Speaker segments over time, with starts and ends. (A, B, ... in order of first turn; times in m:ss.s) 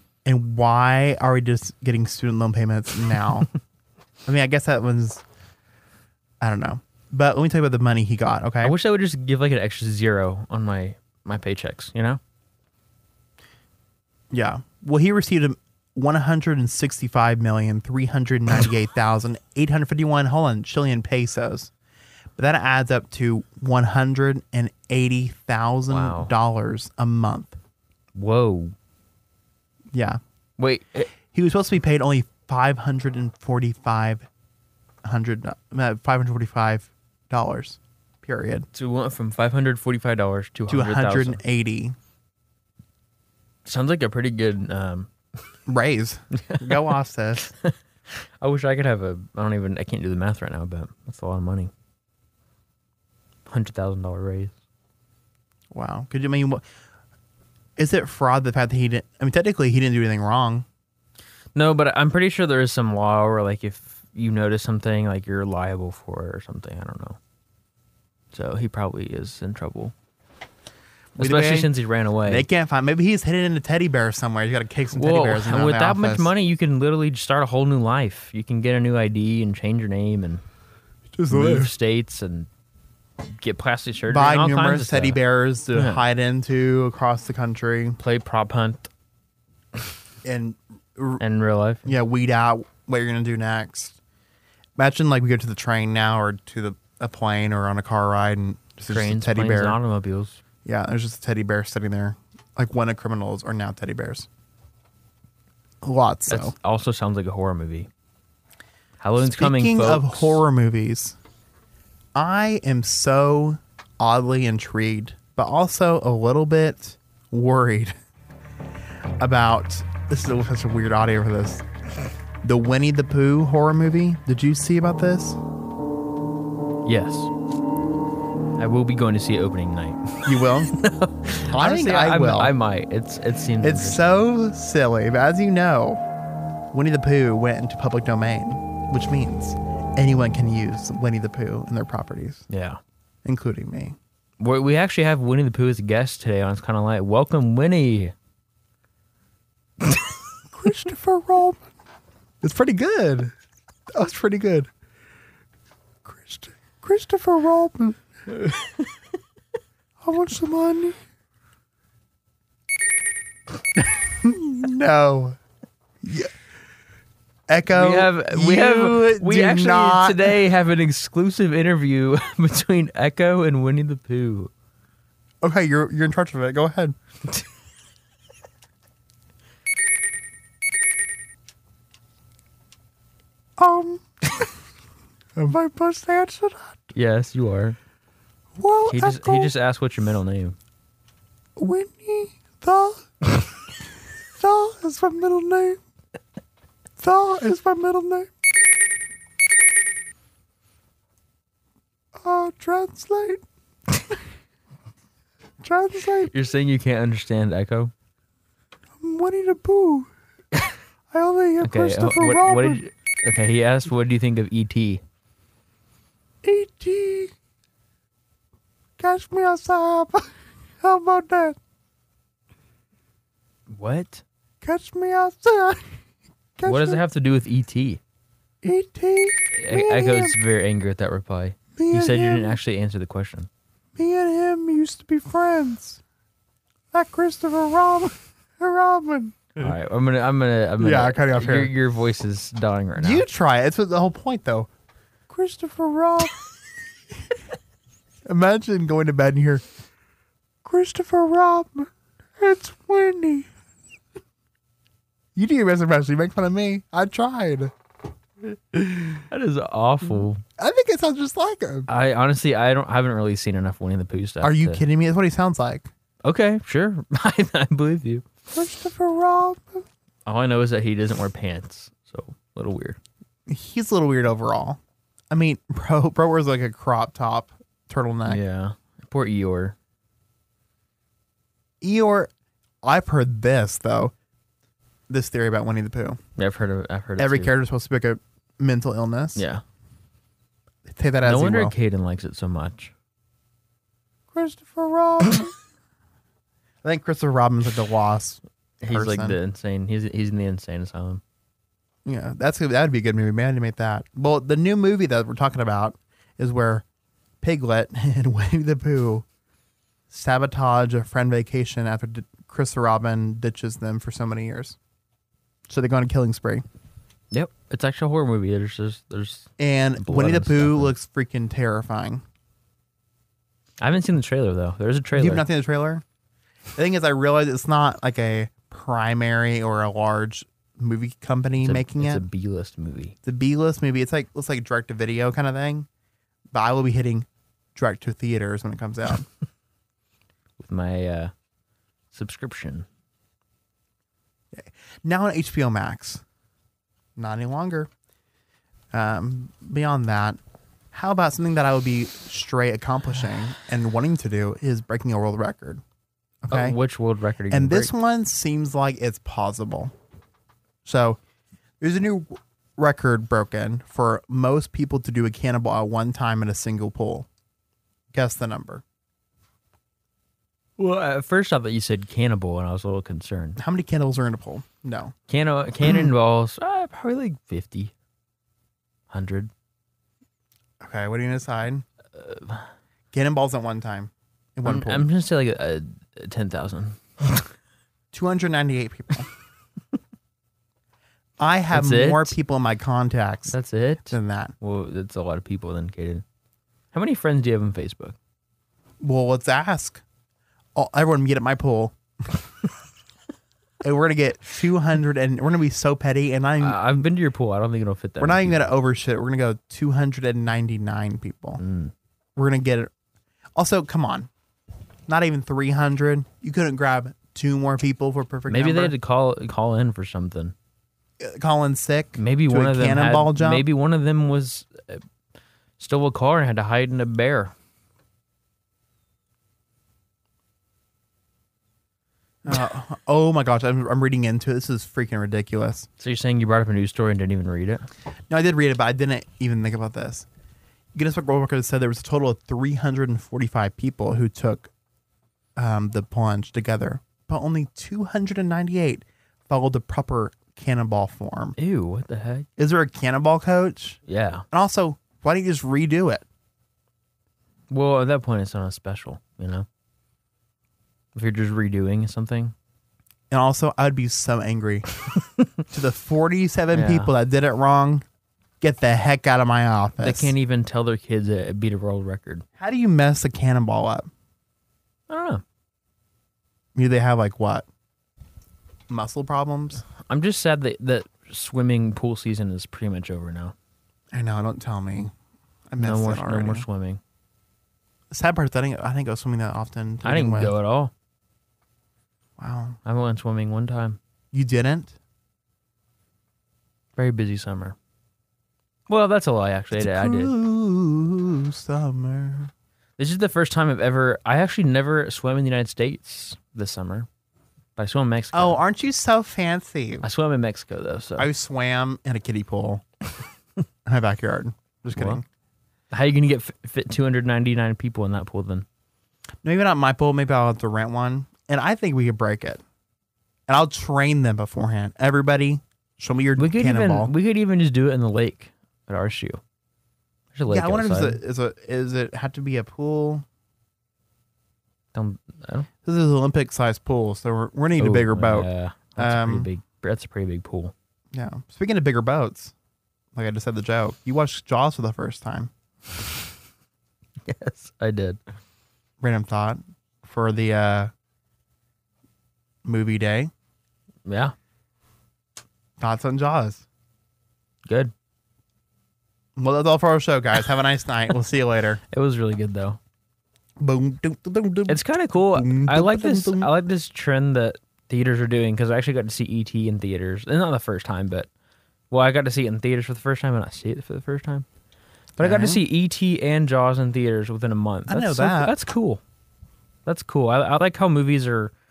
0:00.2-0:03.5 A
0:04.2-0:05.2 A
0:06.4-0:08.8 A
0:08.6-0:12.2 B
0:14.3-0:21.7 A
0:22.4-0:27.6 A
0:25.9-0:26.3 B
0:28.1-0:28.7 B
0:29.9-0:30.2 A
0:30.6-0:31.1 B
0:31.3-0:34.3 A
0:35.0-0:38.6 A
0:38.7-0:41.4 B
0:40.7-0:42.0 A
0:43.6-0:45.1 B
0:45.7-0:47.5 A
0:46.4-0:46.9 B
0:47.6-0:51.7 B
0:53.5-0:54.5 B
0:55.7-0:56.6 A
0:57.8-1:00.6 A
1:01.5-1:07.2 B
1:08.3-1:09.9 B
1:11.2-1:11.7 A
1:11.2-1:12.5 B
1:12.2-1:16.3 A
1:14.9-1:20.4 B
1:21.1-1:21.7 A
1:21.3-1:22.5 B
1:23.4-1:25.2 B
1:24.1-1:28.0 A
1:25.7-1:26.0 B
1:28.0-1:28.9 B
1:30.2-1:31.2 A
1:31.2-1:31.9 B
1:31.8-1:34.0 A
1:34.8-1:39.8 A
1:38.9-1:40.4 B
1:40.6-1:44.3 A
1:45.8-1:46.5 A
1:46.3-1:47.9 B
1:49.0-1:50.4 B
1:49.2-1:51.2 A
1:52.1-1:57.9 A
1:59.2-2:01.6 A
2:02.4-2:05.4 A
2:06.8-2:07.3 B
2:08.6-2:14.0 B
2:10.2-2:10.8 A
2:11.5-2:12.5 A
2:13.6-2:16.0 A
2:16.7-2:22.4 A
2:22.5-2:22.8 B
2:23.2-2:24.0 A
2:24.4-2:28.1 B
2:30.5-2:31.6 A
2:32.4-2:33.3 A
2:33.9-2:34.7 A
2:36.0-2:38.0 A
2:40.0-2:41.0 A
2:43.8-2:45.4 A
2:46.0-2:46.3 A
2:47.5-2:50.3 A
2:47.7-2:54.5 B
2:55.4-2:57.0 A
3:03.6-3:04.4 A
3:05.3-3:06.8 A
3:06.9-3:07.8 B
3:08.6-3:09.5 A
3:08.9-3:10.6 B
3:11.6-3:13.3 A
3:14.4-3:15.8 A
3:17.0-3:18.3 A
3:22.2-3:23.4 A
3:25.6-3:26.3 A
3:26.3-3:27.9 B
3:29.0-3:30.1 A
3:31.1-3:32.8 A
3:31.6-3:35.0 B
3:36.4-3:37.3 A
3:39.0-3:41.6 A
3:43.7-3:44.2 B
3:44.6-3:46.0 A
3:46.6-3:47.0 A
3:46.6-3:48.0 B
3:48.6-3:50.4 A
3:49.6-3:53.5 B
3:51.8-3:52.6 A
3:54.0-3:56.0 A
3:56.9-3:59.7 A
3:59.6-4:03.2 B
4:00.8-4:01.7 A
4:03.0-4:04.7 A
4:05.3-4:06.4 A
4:08.2-4:09.6 A
4:10.6-4:13.5 A
4:15.4-4:17.7 A
4:18.4-4:19.2 A
4:19.3-4:20.4 B
4:20.6-4:21.9 A
4:21.9-4:24.8 B
4:24.4-4:25.9 A
4:26.2-4:28.2 B
4:28.5-4:29.8 A
4:30.2-4:33.0 B
4:33.5-4:38.4 A
4:38.2-4:39.7 B
4:41.8-4:42.3 A
4:42.8-4:44.1 A
4:45.1-4:46.2 A
4:46.4-4:47.5 B
4:47.2-4:49.4 A
4:49.4-4:49.6 B
4:50.8-4:51.7 A
4:51.2-4:52.9 B
4:54.3-4:55.5 A
4:56.8-4:59.4 A
4:58.8-5:01.2 B
5:02.0-5:06.8 A
5:07.4-5:09.2 A
5:10.1-5:14.8 A
5:15.7-5:16.6 A
5:17.3-5:20.9 B
5:19.6-5:22.2 A
5:23.8-5:25.4 B
5:25.1-5:26.0 A
5:26.7-5:32.2 A
5:31.6-5:33.2 B
5:33.2-5:35.9 A
5:36.5-5:39.3 A
5:40.6-5:41.3 B
5:42.1-5:42.8 B
5:44.5-5:46.2 A
5:47.2-5:47.9 A
5:48.9-5:50.4 A
5:50.9-5:55.8 A
5:56.4-5:56.8 A
5:56.5-5:57.9 B
5:57.5-5:59.9 A
6:00.8-6:01.2 A
6:01.8-6:07.3 A
6:08.1-6:08.8 A
6:10.8-6:13.6 B
6:13.6-6:15.1 A
6:15.3-6:17.9 B
6:15.8-6:16.1 A
6:19.1-6:19.5 B
6:20.8-6:21.8 A
6:22.2-6:22.6 B
6:23.1-6:25.1 A
6:24.6-6:27.5 B
6:28.1-6:29.3 A
6:31.4-6:34.5 A
6:31.7-6:32.4 B
6:33.5-6:36.2 B
6:36.9-6:38.2 B
6:39.0-6:40.0 A
6:40.7-6:42.0 A
6:43.8-6:47.0 A
6:46.6-6:48.7 B
6:48.2-6:51.6 A
6:51.6-6:51.9 B
6:52.4-6:52.9 A
6:53.6-6:54.3 A
6:55.1-6:58.9 A
6:58.5-7:00.5 B
7:01.2-7:03.6 A
7:02.2-7:05.0 B
7:05.8-7:07.5 B
7:12.4-7:15.9 A
7:16.0-7:17.8 B
7:18.3-7:20.2 A
7:20.9-7:24.7 A
7:25.6-7:31.6 A
7:31.6-7:32.5 B
7:32.6-7:34.0 A
7:34.1-7:34.4 B
7:34.5-7:36.2 A
7:37.7-7:39.6 B
7:41.1-7:42.5 B
7:43.3-7:44.8 A
7:45.7-7:48.0 A
7:46.7-7:47.1 B
7:48.6-7:50.3 A
7:50.0-7:52.4 B
7:52.6-7:54.1 A
7:55.1-7:55.4 B
7:56.7-7:57.6 A
7:58.9-7:59.8 A
8:00.0-8:03.5 B
8:04.1-8:05.1 A
8:05.7-8:06.6 A
8:05.8-8:07.0 B
8:08.1-8:10.5 A
8:10.0-8:10.9 B
8:12.4-8:12.8 A
8:12.8-8:14.0 B
8:14.3-8:15.0 A
8:17.0-8:17.8 B
8:18.9-8:20.3 B
8:19.8-8:22.5 A
8:23.0-8:27.1 B
8:27.8-8:28.6 B
8:28.3-8:30.0 A
8:30.0-8:31.3 B
8:31.2-8:32.8 A
8:33.8-8:35.2 A
8:35.0-8:35.2 B
8:35.9-8:38.6 B
8:39.4-8:42.6 A
8:43.5-8:47.1 A
8:46.4-8:49.4 B
8:50.3-8:51.2 B
8:50.5-8:53.2 A
8:54.9-8:55.7 B
8:55.8-8:59.5 A
8:57.8-9:00.7 B
9:01.1-9:02.5 A
9:03.1-9:05.5 A
9:07.2-9:08.2 B
9:09.0-9:10.9 A
9:12.6-9:13.3 A
9:14.0-9:14.3 B
9:15.8-9:16.6 A
9:17.6-9:17.9 B
9:19.4-9:21.8 A
9:21.9-9:22.8 B
9:23.6-9:26.5 A
9:24.7-9:31.3 B
9:31.9-9:34.4 B
9:35.2-9:35.6 A
9:35.2-9:39.0 B
9:37.9-9:38.5 A
9:39.8-9:41.5 B